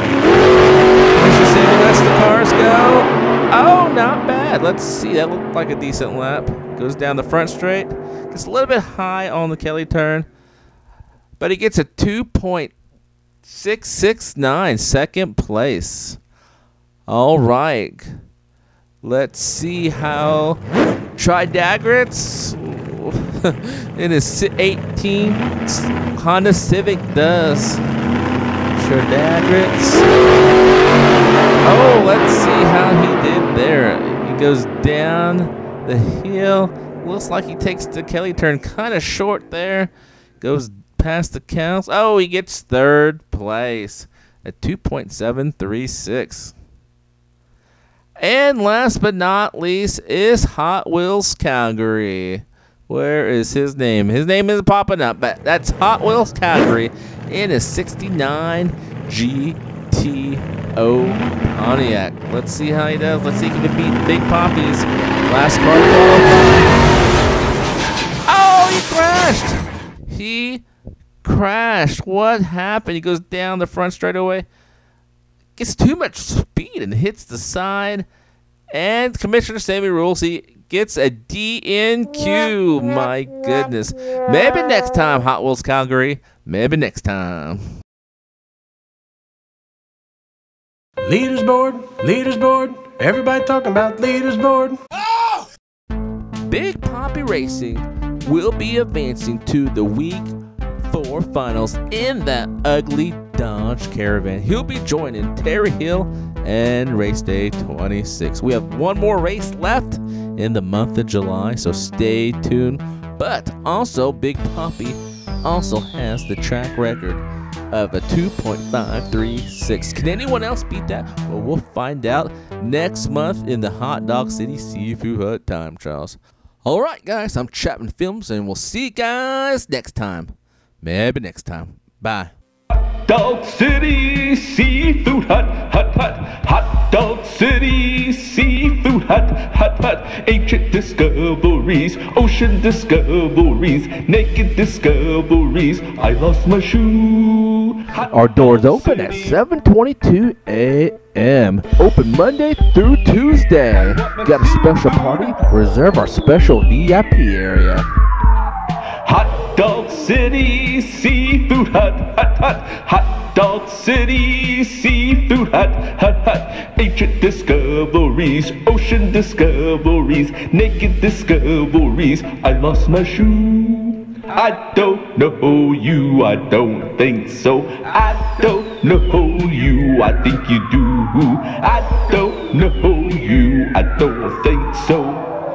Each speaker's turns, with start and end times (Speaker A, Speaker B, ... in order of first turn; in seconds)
Speaker A: 1.1-10.3, 11.4-12.7, 13.4-16.2, 17.1-18.1, 19.0-20.6, 21.2-27.8, 28.7-30.1, 31.6-46.5, 48.2-66.8, 68.3-70.6, 71.2-74.5, 75.6-78.1, 78.7-87.7, 96.5-100.3, 100.8-132.3, 142.4-142.6, 148.0-157.9, 159.6-160.1, 161.3-162.1, 165.6-173.2, 174.5-176.4, 177.2-177.7
Speaker B: 91.0-95.4
Speaker C: 133.1-149.3, 154.0-155.3, 159.1-165.7, 167.2-167.5, 168.6-169.0, 170.5-170.8, 172.1-172.5, 173.1-175.2, 175.8-185.2